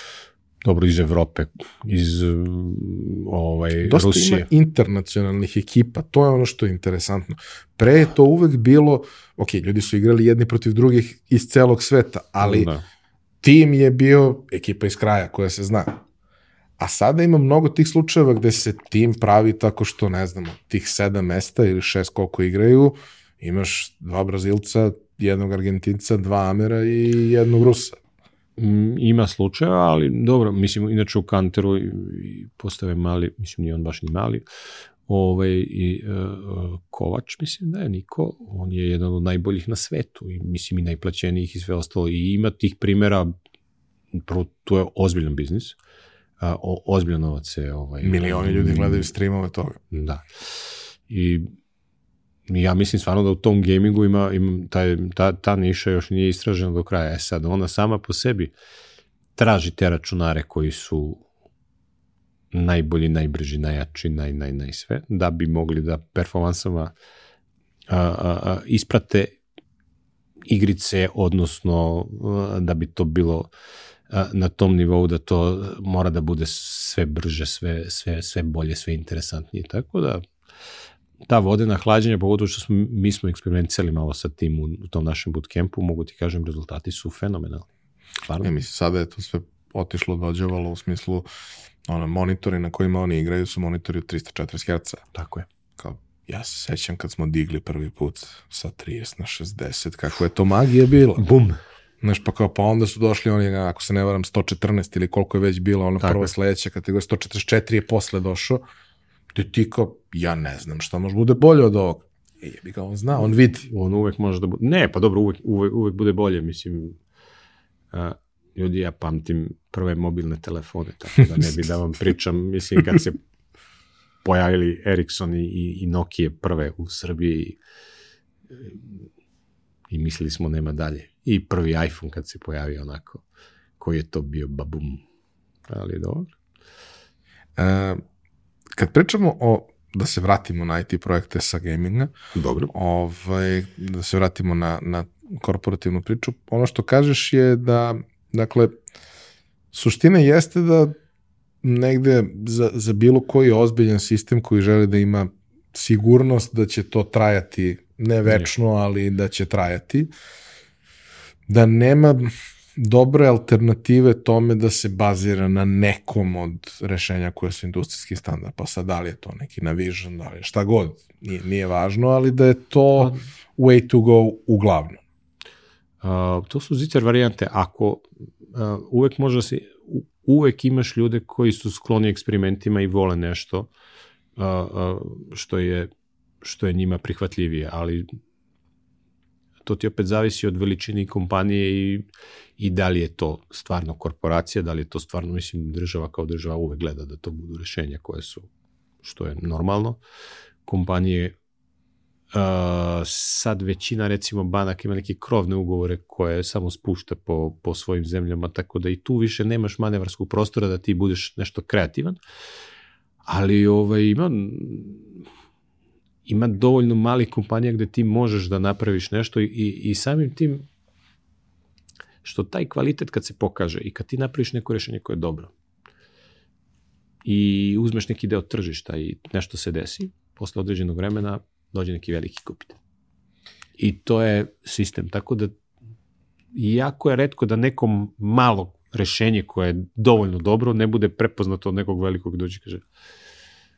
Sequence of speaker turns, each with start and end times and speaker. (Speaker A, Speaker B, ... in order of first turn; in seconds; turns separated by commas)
Speaker A: 0.7-4.5, Speaker B: 3.8-12.7, Speaker A: 12.4-12.8, Speaker B: 13.4-16.0, Speaker B: 16.8-28.0, Speaker A: 28.6-34.5, Speaker A: 35.1-43.3, Speaker A: 44.1-45.8, Speaker A: 46.4-49.1, Speaker B: 48.0-49.8, Speaker A: 49.9-51.5, Speaker A: 52.5-58.5, Speaker A: 59.4-61.2, Speaker A: 62.5-66.9, Speaker A: 67.9-69.4, Speaker A: 70.5-73.5, Speaker A: 74.1-80.3, Speaker A: 81.3-87.7, Speaker A: 88.2-88.5, Speaker B: 88.4-91.3, Speaker B: 91.9-95.0, Speaker A: 95.1-95.5, Speaker B: 95.8-101.2, Speaker A: 101.2-101.6, Speaker B: 102.0-108.6, Speaker A: 106.0-106.3, Speaker B: 109.3-113.7, Speaker A: 113.6-117.0, Speaker A: 117.9-123.2, Speaker A: 124.2-127.6, Speaker A: 128.5-129.0, Speaker A: 129.9-133.2, Speaker A: 133.8-135.0, Speaker A: 135.7-136.3, Speaker B: 137.6-138.0, Speaker B: 138.8-142.1, Speaker A: 142.3-142.7, Speaker B: 142.7-148.7, Speaker B: 149.7-150.9, Speaker B: 151.6-160.1, Speaker B: 161.5-175.0, Speaker A: 173.0-173.2, Speaker A: 176.0-183.7, Speaker A: 184.4-185.9, Speaker A: 186.4-188.1, Speaker A: 189.7-192.1, Speaker A: 192.6-198.5, Speaker A: 199.0-200.0, Speaker A: 200.7-201.3, Speaker A: 202.3-212.2, Speaker A: 213.3-215.2, Speaker A: 216.3-220.7, Speaker A: 222.2-225.5, Speaker A: 227.2-232.8, Speaker A: 233.8-235.5, Speaker A: 236.5-242.8